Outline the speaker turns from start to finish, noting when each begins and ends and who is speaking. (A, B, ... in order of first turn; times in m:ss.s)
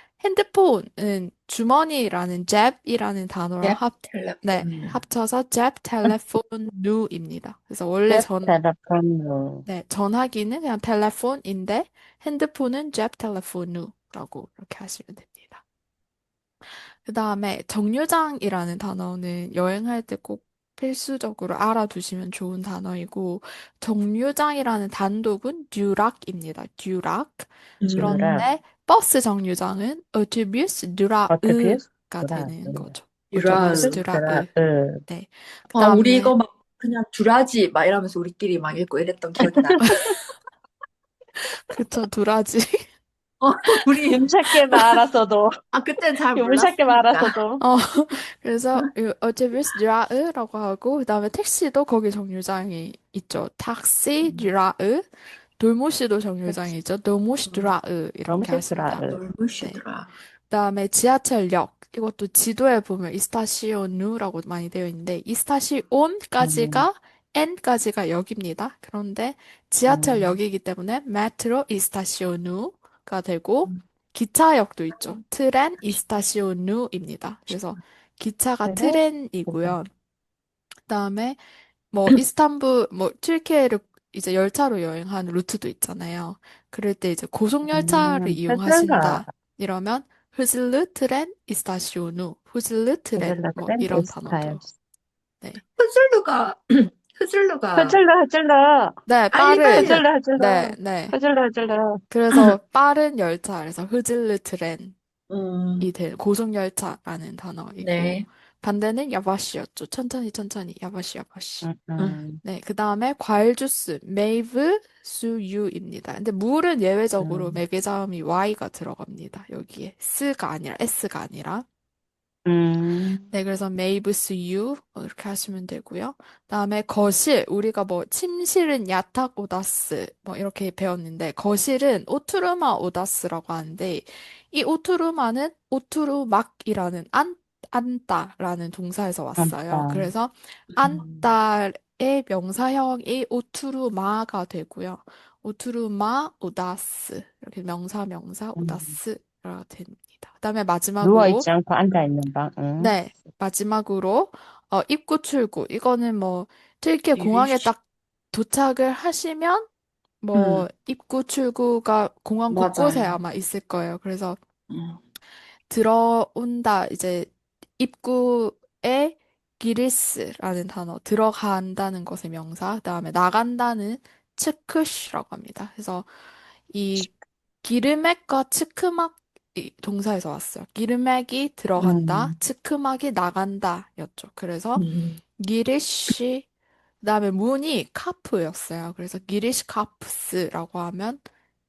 0:00.2-0:08.5 A
0:03.6-0:05.0 B
0:08.1-0:09.6 C
0:09.6-0:15.6 A
0:16.7-0:34.5 A
0:27.8-0:28.2 B
0:27.9-0:28.5 C
0:31.3-0:32.9 C
0:33.3-0:34.0 B
0:33.5-0:35.0 C
0:35.1-0:36.4 A
0:35.7-0:40.1 B
0:39.4-0:40.1 C
0:41.7-0:42.8 A
0:43.4-0:44.8 B
0:44.0-0:45.5 C
0:45.7-0:47.3 B
0:46.3-0:47.6 C
0:47.6-0:59.8 A
0:54.2-0:54.5 B
0:57.4-0:57.7 B
0:58.2-0:59.2 C
0:59.1-1:00.1 B
1:00.5-1:19.9 A
1:06.4-1:06.8 C
1:09.9-1:10.3 C
1:18.6-1:19.8 C
1:20.9-1:21.4 A
1:21.9-1:34.6 A
1:27.7-1:29.3 C
1:33.2-1:34.6 C
1:35.8-1:38.0 B
1:37.7-1:42.0 C
1:39.1-1:41.2 A
1:39.6-1:40.0 B
1:42.1-1:44.9 A
1:45.3-1:45.9 B
1:45.8-1:51.7 A
1:47.8-1:48.2 B
1:51.6-1:52.4 C
1:52.4-2:01.6 A
1:57.2-1:57.6 C
2:02.4-2:03.2 C
2:03.3-2:31.5 A
2:19.4-2:20.1 C
2:20.8-2:21.3 B
2:28.6-2:28.9 C
2:31.0-2:33.0 C
2:32.8-2:37.8 A
2:37.1-2:37.7 B
2:38.3-2:39.7 A
2:40.2-2:44.4 A
2:40.3-2:40.6 C
2:42.5-2:43.2 B
2:44.7-2:45.0 B
2:45.7-2:56.1 A
2:56.7-2:57.1 A
2:57.6-3:04.8 A
3:01.8-3:02.3 C
3:04.8-3:05.2 B
3:05.4-3:06.4 A
3:07.0-3:11.2 A